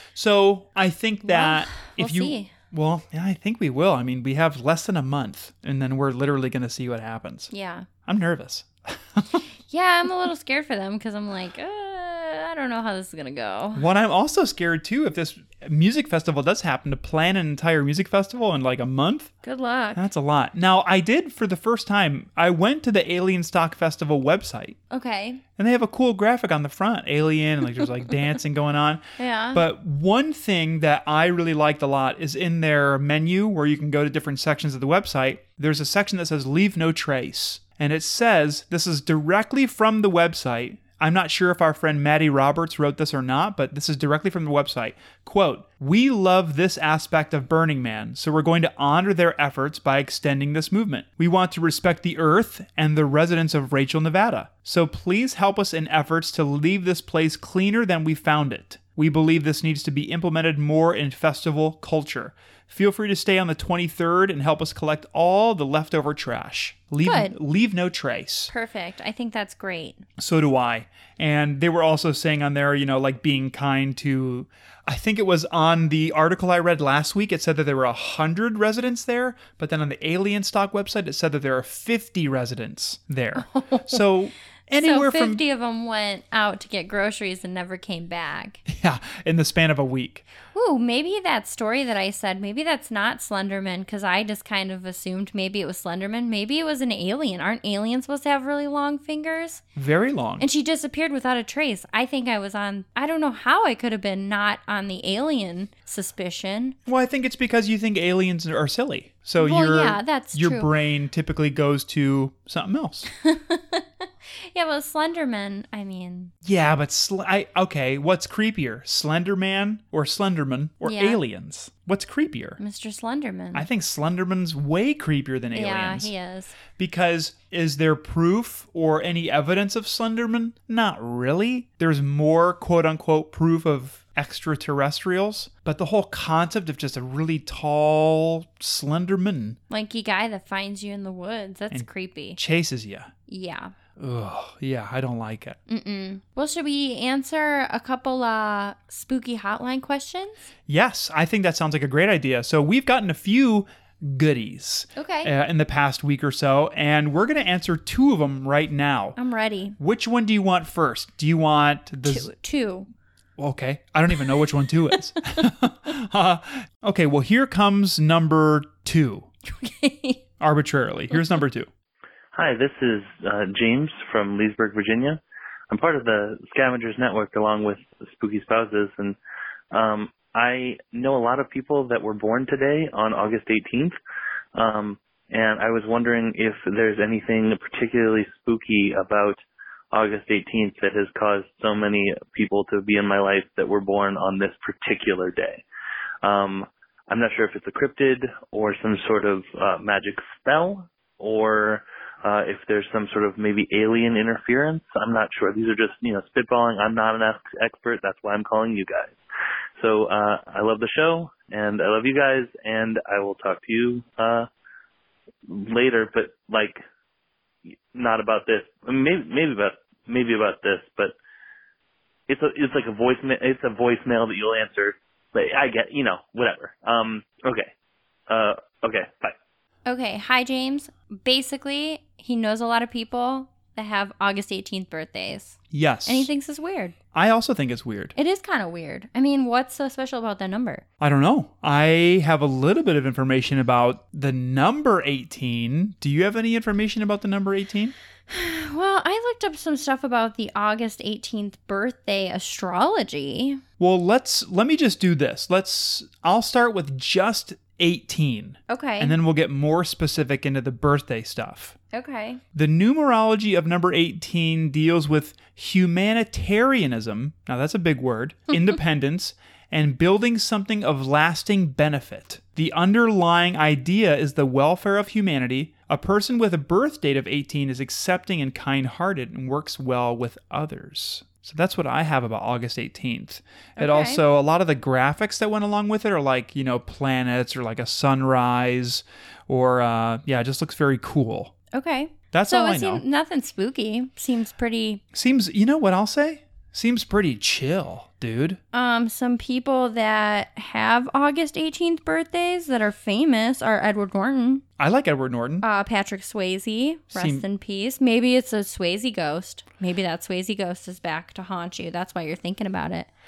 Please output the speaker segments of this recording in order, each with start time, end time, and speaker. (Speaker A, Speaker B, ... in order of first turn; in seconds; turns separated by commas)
Speaker A: 0.1-7.5, Speaker B: 1.2-2.5, Speaker B: 7.5-7.9, Speaker A: 8.1-9.4, Speaker B: 9.7-13.8, Speaker A: 13.7-19.3, Speaker B: 19.4-20.0, Speaker A: 19.9-24.8, Speaker B: 24.9-25.4, Speaker A: 25.6-68.5, Speaker B: 29.2-29.6, Speaker B: 67.0-67.3, Speaker B: 68.5-70.0, Speaker A: 70.2-85.4, Speaker B: 83.3-84.0, Speaker B: 84.8-88.6, Speaker A: 88.7-90.3, Speaker B: 90.5-99.6, Speaker A: 99.7-100.5, Speaker B: 100.4-106.8, Speaker A: 106.8-113.1, Speaker B: 109.4-110.7, Speaker B: 113.2-116.3, Speaker A: 116.4-122.6, Speaker B: 120.8-121.2, Speaker B: 122.6-123.7, Speaker A: 123.5-126.1, Speaker B: 125.5-126.5, Speaker A: 126.8-139.6, Speaker B: 139.7-142.4, Speaker A: 141.7-143.1, Speaker B: 143.3-143.7, Speaker A: 144.0-145.6, Speaker B: 145.7-150.5, Speaker A: 150.7-159.2, Speaker B: 154.9-155.3, Speaker B: 159.2-159.8, Speaker A: 159.8-162.3, Speaker B: 162.0-162.9, Speaker A: 163.4-169.3, Speaker B: 169.4-170.2, Speaker A: 170.4-171.7, Speaker C: 172.3-179.2, Speaker C: 179.7-183.9, Speaker C: 184.5-189.4, Speaker C: 189.9-195.6, Speaker C: 196.2-209.2, Speaker C: 209.8-214.5, Speaker C: 215.5-216.8, Speaker C: 217.9-221.1, Speaker C: 222.3-227.7, Speaker C: 228.3-229.3, Speaker B: 229.8-236.9, Speaker A: 235.7-236.3, Speaker A: 237.1-238.1, Speaker B: 238.2-240.8, Speaker A: 241.0-247.9, Speaker B: 248.3-253.6, Speaker A: 253.8-261.8, Speaker B: 258.7-259.2, Speaker B: 261.9-262.4, Speaker A: 262.5-291.5, Speaker B: 283.8-284.2, Speaker B: 291.7-295.0, Speaker A: 292.3-293.0, Speaker A: 295.1-298.6, Speaker B: 298.7-304.6, Speaker A: 304.8-305.6, Speaker B: 305.6-313.1, Speaker A: 307.1-307.4